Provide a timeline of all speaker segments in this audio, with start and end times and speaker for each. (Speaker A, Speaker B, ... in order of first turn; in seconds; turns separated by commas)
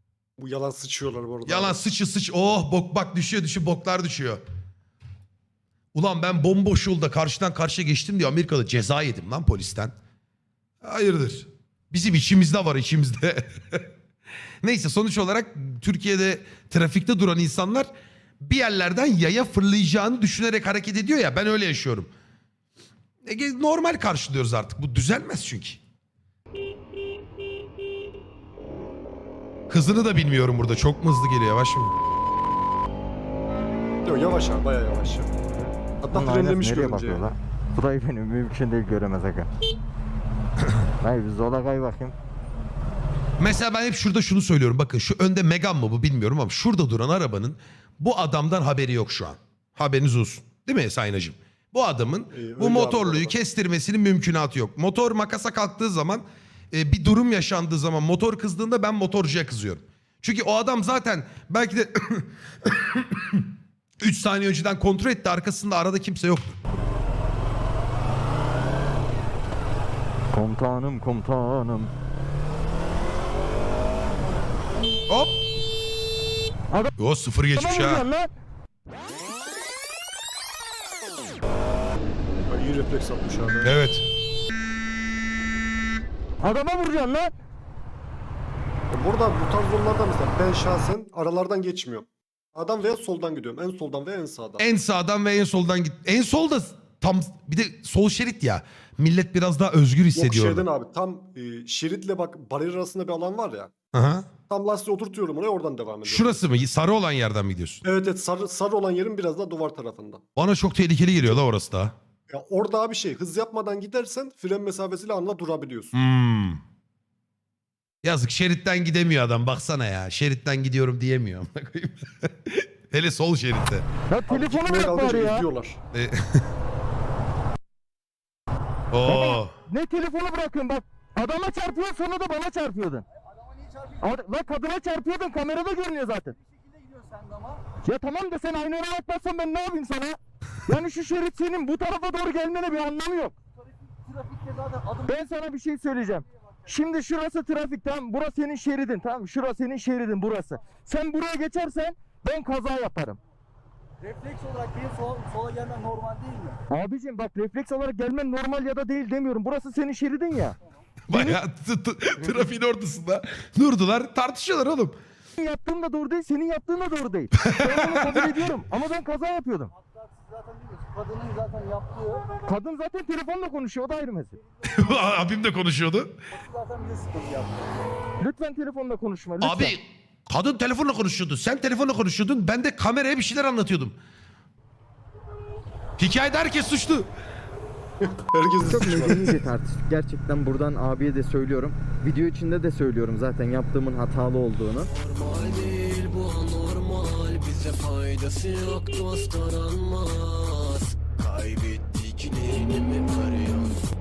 Speaker A: 0.4-1.8, Speaker B: 1.5-4.4, Speaker B: 5.9-9.9, Speaker B: 10.8-13.8, Speaker B: 14.6-17.9, Speaker B: 18.4-22.1, Speaker B: 23.2-25.8, Speaker B: 29.7-31.9, Speaker A: 34.0-35.3, Speaker A: 36.0-37.3, Speaker C: 36.1-39.5, Speaker C: 41.0-42.1, Speaker B: 43.4-63.4, Speaker A: 52.3-53.4, Speaker B: 64.0-66.6, Speaker C: 70.3-71.9, Speaker B: 77.0-78.0, Speaker C: 77.5-78.3, Speaker A: 82.5-83.7, Speaker B: 83.6-84.0, Speaker C: 86.4-87.3, Speaker A: 88.9-94.7, Speaker B: 94.6-100.7, Speaker A: 100.2-103.7, Speaker B: 103.9-104.3, Speaker A: 104.5-106.4, Speaker B: 106.0-107.8, Speaker A: 107.8-110.2, Speaker B: 110.4-111.9, Speaker A: 112.3-115.9, Speaker B: 115.9-116.6, Speaker B: 118.0-123.9, Speaker C: 124.1-125.5, Speaker A: 124.3-125.8, Speaker B: 125.9-126.4, Speaker B: 128.9-129.5, Speaker C: 129.0-133.1, Speaker C: 134.0-136.4, Speaker C: 137.8-143.4, Speaker C: 145.1-153.2, Speaker D: 154.4-156.5, Speaker C: 156.7-160.6, Speaker B: 161.1-165.0, Speaker C: 161.1-161.4, Speaker C: 165.4-169.7, Speaker B: 167.4-168.3, Speaker D: 171.2-172.1, Speaker C: 172.5-174.4, Speaker B: 174.7-176.1, Speaker D: 176.9-177.5, Speaker C: 178.2-179.8, Speaker B: 179.4-184.0, Speaker B: 186.0-187.1, Speaker A: 188.0-189.4, Speaker C: 188.7-194.9, Speaker E: 194.9-203.8